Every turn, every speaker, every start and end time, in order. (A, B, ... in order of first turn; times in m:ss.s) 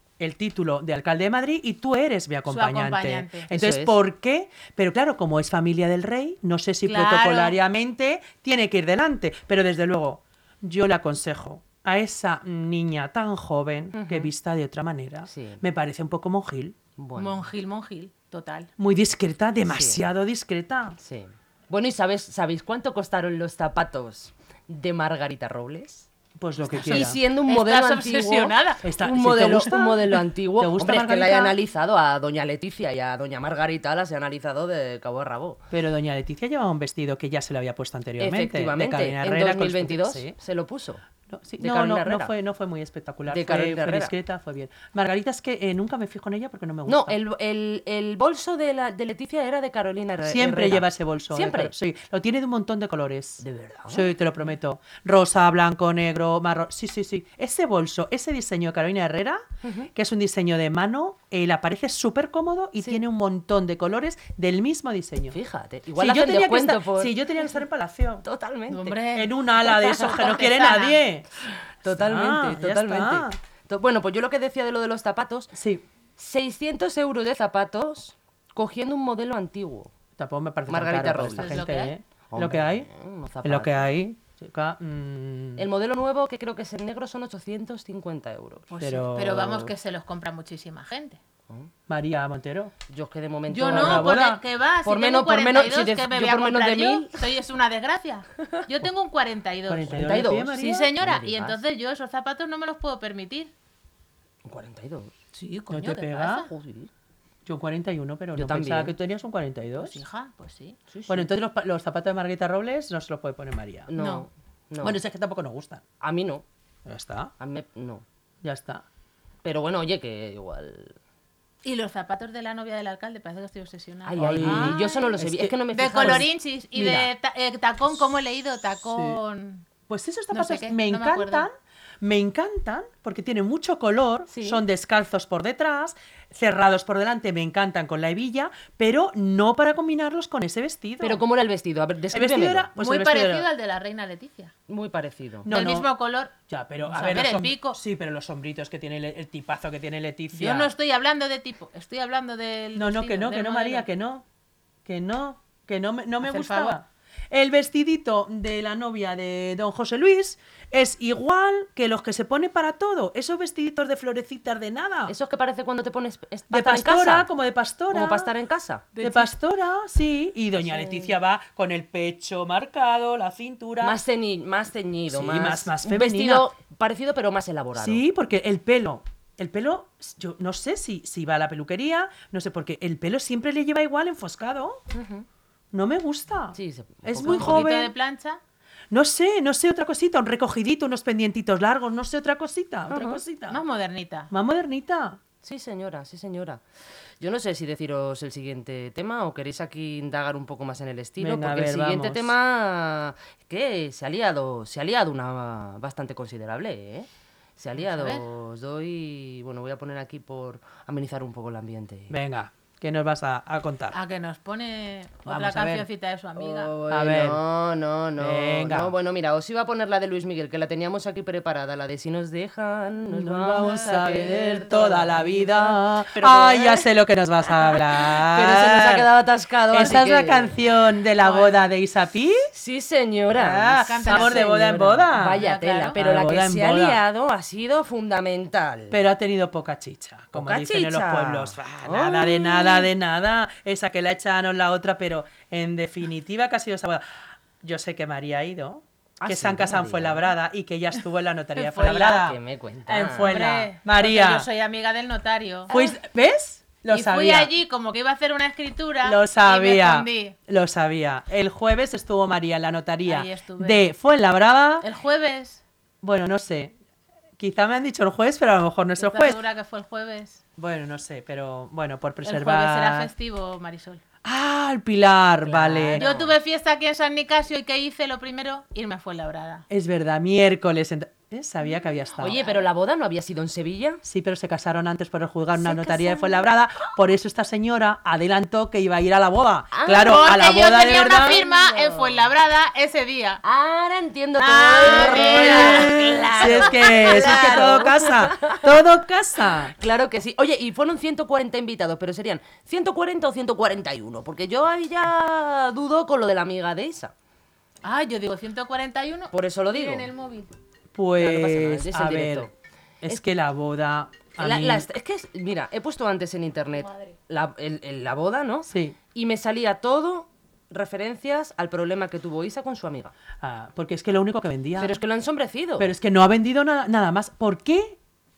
0:00.2-0:16.8 A
0:02.5-0:03.5 B
0:03.5-0:04.0 C
0:06.8-0:07.6 B
0:13.9-0:14.3 C
0:15.3-0:15.6 C
0:17.0-0:17.5 C
0:17.2-0:18.7 B
0:18.8-0:21.0 A
0:19.6-0:20.0 C
0:21.0-0:26.1 C
0:26.4-0:27.2 A
0:26.7-0:35.6 C
0:26.9-0:28.8 B
0:28.8-0:31.6 A
0:35.7-0:40.4 A
0:38.2-0:41.0 C
0:41.3-0:47.2 A
0:41.6-0:42.3 C
0:43.3-0:44.1 C
0:46.9-0:51.7 C
0:50.2-0:59.4 A
0:53.4-0:54.2 C
0:59.6-0:59.9 C
0:59.9-1:05.4 A
1:05.3-1:07.2 C
1:06.0-1:08.3 A
1:08.2-1:09.0 C
1:08.7-1:11.0 B
1:09.1-1:11.3 A
1:11.8-1:15.5 C
1:11.8-1:13.4 A
1:15.5-1:15.9 A
1:16.2-1:19.9 C
1:20.2-1:22.9 A
1:20.7-1:21.6 C
1:21.4-1:21.9 B
1:22.3-1:23.9 C
1:23.4-1:25.7 A
1:25.6-1:28.7 C
1:28.7-1:31.2 B
1:28.8-1:29.7 A
1:31.9-1:32.8 A
1:32.9-1:34.2 C
1:33.5-1:43.5 B
1:33.6-1:34.4 A
1:34.8-1:37.2 C
1:39.7-1:40.9 A
1:39.9-1:41.6 C
1:44.4-1:45.2 C
1:45.3-1:46.5 B
1:45.7-1:46.5 A
1:46.3-1:46.9 C
1:47.5-1:50.0 A
1:48.4-1:49.0 C
1:49.8-1:50.8 B
1:50.9-1:51.3 C
1:51.1-1:53.9 A
1:53.9-1:55.0 C
1:54.0-1:54.3 B
1:54.8-1:55.8 A
1:56.0-1:56.4 C
1:56.9-1:57.3 A
1:57.4-1:58.0 C
1:58.4-1:58.8 A
1:59.4-2:01.0 C
2:01.6-2:05.2 B
2:04.1-2:06.3 C
2:04.2-2:07.1 A
2:05.7-2:09.7 B
2:08.9-2:09.2 A
2:09.9-2:21.2 A
2:10.3-2:11.5 B
2:14.3-2:14.6 C
2:21.0-2:22.7 C
2:22.1-2:23.5 A
2:22.8-2:24.5 B
2:24.7-2:25.5 C
2:25.4-2:25.9 A
2:25.5-2:26.3 B
2:26.5-2:30.7 A
2:26.9-2:27.8 B
2:30.4-2:33.9 B
2:32.8-2:34.2 A
2:34.8-2:45.2 A
2:36.2-2:36.8 B
2:45.1-2:47.3 C
2:46.5-2:48.3 A
2:47.9-2:49.1 C
2:49.0-2:54.0 A
2:50.6-2:51.1 C
2:53.8-2:58.0 C
2:55.1-2:56.5 A
2:57.8-3:04.8 A
3:04.9-3:05.3 C
3:05.7-3:07.9 A
3:06.6-3:07.7 C
3:07.2-3:08.4 B
3:08.9-3:13.6 A
3:12.9-3:13.2 C
3:13.5-3:14.3 B
3:14.3-3:15.2 A
3:15.4-3:16.6 C
3:17.2-3:32.1 C
3:21.2-3:22.3 A
3:27.8-3:28.2 B
3:32.1-3:34.0 A
3:33.9-3:36.7 B
3:35.2-3:35.9 A
3:36.4-3:46.8 C
3:36.9-3:37.4 A
3:38.2-3:38.9 A
3:43.1-3:49.1 A
3:43.6-3:44.6 B
3:48.0-3:50.5 C
3:49.7-3:52.5 A
3:51.2-3:51.7 B
3:52.5-3:59.0 C
3:53.3-3:55.4 A
3:53.8-3:54.6 B
3:55.3-3:56.0 B
3:56.0-3:57.0 A
3:58.9-4:14.5 A
4:00.3-4:02.9 C
4:09.2-4:10.3 C
4:11.6-4:12.1 B
4:11.9-4:13.4 C
4:13.1-4:15.9 B
4:15.7-4:17.5 A
4:16.9-4:20.4 B
4:19.0-4:24.9 A
4:23.0-4:23.8 B
4:24.8-4:25.6 B
4:26.0-4:26.8 A
4:27.4-4:29.4 A
4:29.0-4:30.4 B
4:30.6-4:33.1 A
4:32.2-4:34.0 B
4:34.2-4:36.0 A
4:35.4-4:36.4 C
4:36.0-4:39.7 B
4:39.7-4:42.5 A
4:42.2-4:44.0 C
4:44.0-4:51.4 A
4:45.8-4:46.2 C
4:49.7-4:52.2 C
4:49.9-4:53.4 B
4:53.4-4:58.7 C
4:54.4-4:57.9 B
4:54.8-4:59.8 A
4:59.8-5:07.1 C
5:07.8-5:10.5 B
5:09.3-5:10.1 C
5:10.9-5:12.5 A
5:11.2-5:12.5 C
5:13.0-5:14.9 A
5:14.4-5:23.1 C
5:16.8-5:17.2 B
5:18.7-5:19.0 A
5:23.4-5:25.0 A
5:24.8-5:25.9 C
5:25.8-5:28.0 A